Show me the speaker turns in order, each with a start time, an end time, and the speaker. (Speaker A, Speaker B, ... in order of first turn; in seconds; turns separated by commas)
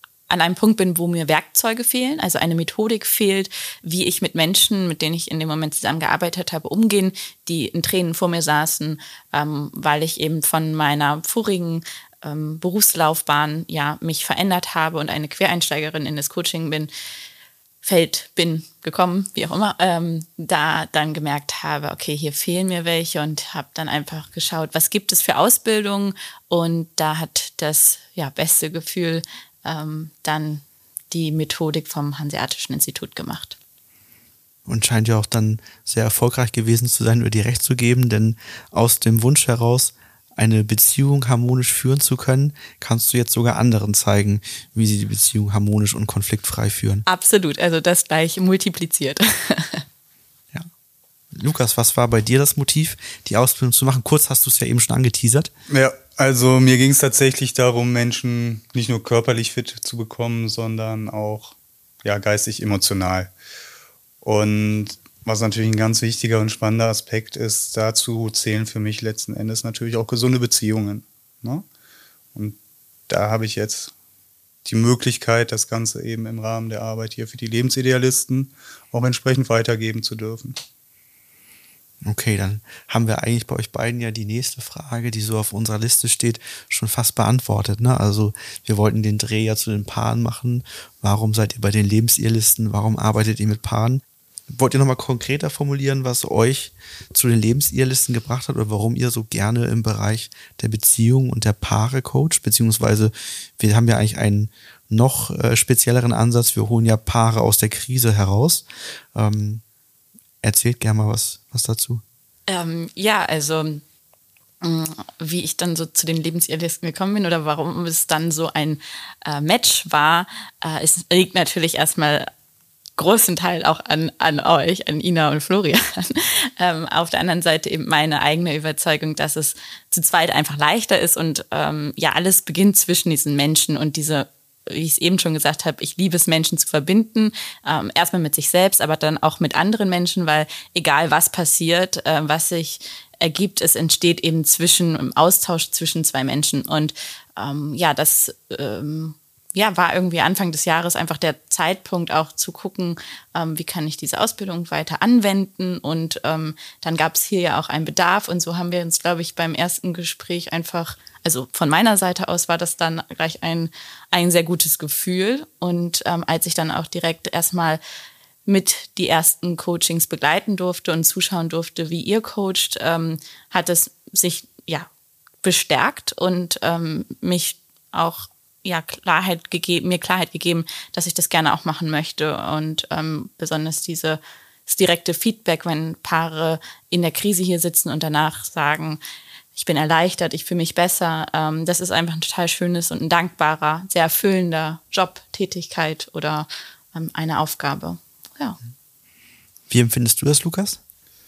Speaker A: 0.3-16.9, Speaker A: 17.8-33.5, Speaker B: 34.7-47.0, Speaker A: 47.1-49.8, Speaker B: 51.3-55.5, Speaker C: 55.7-63.3, Speaker C: 64.2-71.7, Speaker C: 73.1-73.9, Speaker C: 74.6-80.6, Speaker B: 82.0-109.6, Speaker B: 110.4-112.0, Speaker A: 112.5-113.8, Speaker A: 114.6-122.3, Speaker A: 123.0-167.8, Speaker A: 168.4-174.9, Speaker A: 175.4-189.0, Speaker A: 189.6-198.6, Speaker B: 199.7-200.8